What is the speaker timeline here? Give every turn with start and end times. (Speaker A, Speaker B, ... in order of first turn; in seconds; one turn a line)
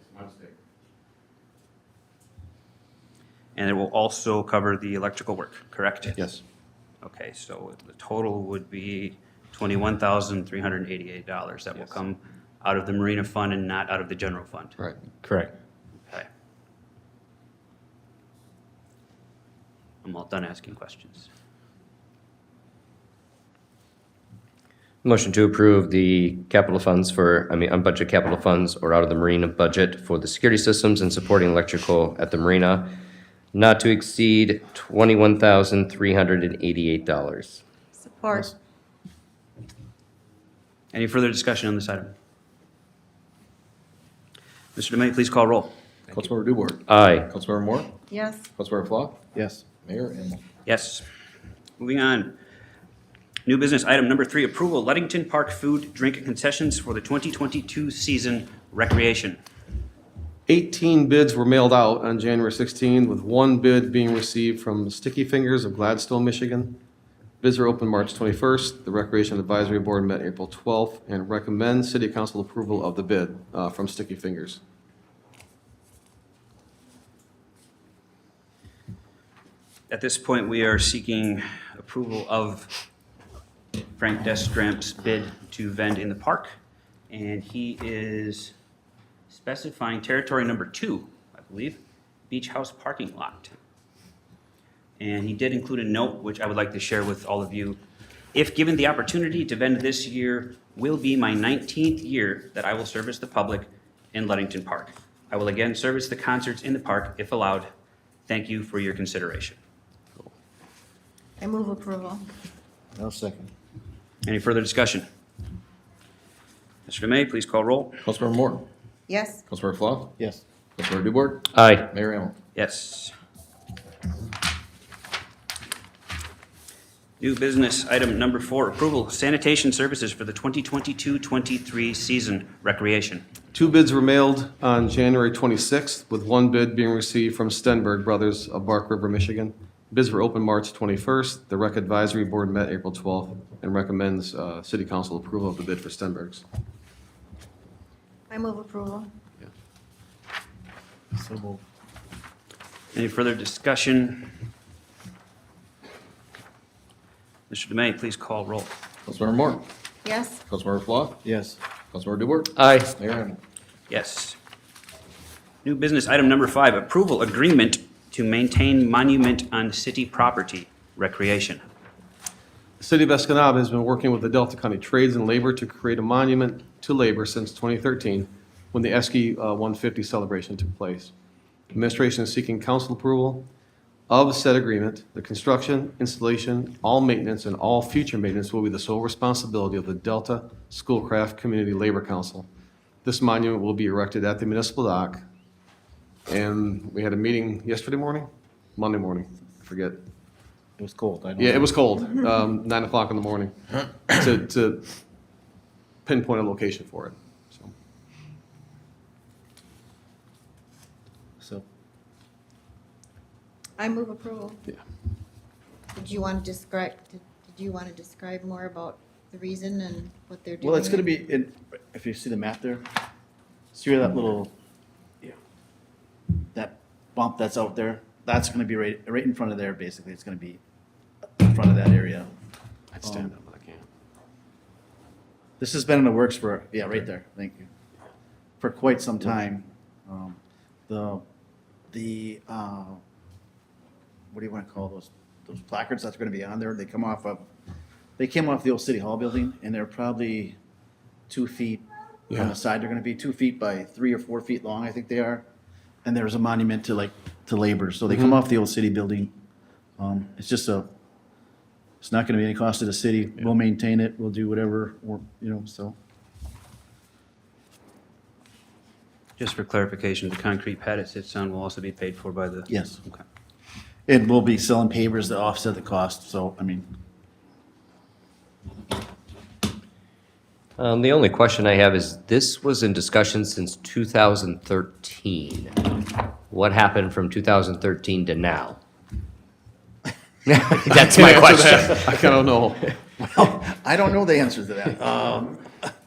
Speaker A: 0.1-0.5
Speaker B: 3.5-6.2
Speaker A: 6.2-6.4
Speaker B: 7.0-14.8
Speaker C: 15.2-15.5
Speaker B: 20.0-21.3
Speaker C: 25.0-32.9
Speaker C: 33.5-37.6
Speaker D: 38.0-38.5
Speaker B: 40.9-42.1
Speaker B: 44.8-45.7
Speaker E: 46.1-48.0
Speaker C: 46.9-47.3
Speaker D: 48.1-48.5
Speaker E: 48.6-49.2
Speaker F: 49.4-49.6
Speaker E: 49.8-50.4
Speaker B: 50.6-51.0
Speaker B: 51.8-52.4
Speaker B: 53.5-59.4
Speaker A: 60.5-66.8
Speaker A: 67.4-74.6
Speaker B: 79.9-82.7
Speaker B: 84.0-86.5
Speaker B: 87.1-88.5
Speaker B: 89.3-93.6
Speaker B: 95.0-97.8
Speaker B: 98.3-107.7
Speaker B: 108.3-109.6
Speaker D: 111.4-112.2
Speaker F: 113.0-113.5
Speaker B: 114.3-115.1
Speaker B: 116.9-118.0
Speaker E: 118.0-118.7
Speaker D: 119.1-119.4
Speaker E: 119.5-120.2
Speaker F: 120.2-120.4
Speaker E: 120.8-122.3
Speaker C: 121.5-121.9
Speaker B: 122.5-123.1
Speaker B: 127.2-133.3
Speaker A: 133.5-146.4
Speaker D: 148.3-149.1
Speaker F: 151.1-151.6
Speaker B: 152.9-154.4
Speaker B: 157.5-158.7
Speaker E: 159.1-159.7
Speaker D: 160.1-160.4
Speaker E: 160.5-161.3
Speaker F: 161.2-161.6
Speaker E: 161.9-163.4
Speaker C: 162.6-162.9
Speaker B: 163.9-164.4
Speaker B: 165.6-171.6
Speaker A: 172.8-181.1
Speaker A: 181.7-183.5
Speaker A: 184.1-192.5
Speaker A: 193.0-195.2
Speaker A: 196.3-200.0
Speaker F: 200.8-201.8
Speaker A: 201.4-204.9
Speaker A: 206.1-207.7
Speaker D: 213.8-214.6
Speaker D: 215.9-221.1
Speaker F: 220.6-222.9
Speaker F: 223.7-224.5
Speaker F: 226.5-230.6
Speaker F: 231.4-232.3
Speaker A: 233.0-233.8
Speaker F: 233.0-233.3
Speaker F: 235.6-237.7
Speaker F: 238.6-241.2
Speaker F: 241.9-243.0
Speaker F: 244.3-247.4
Speaker F: 248.2-250.6
Speaker F: 251.3-255.4
Speaker F: 256.0-259.3
Speaker A: 258.1-258.4
Speaker F: 260.0-260.9
Speaker F: 262.0-266.0
Speaker B: 269.4-273.2
Speaker F: 272.7-273.0
Speaker F: 274.1-276.9
Speaker C: 280.8-285.9
Speaker C: 286.5-288.8
Speaker C: 290.5-292.3
Speaker A: 290.9-293.0
Speaker F: 293.3-295.7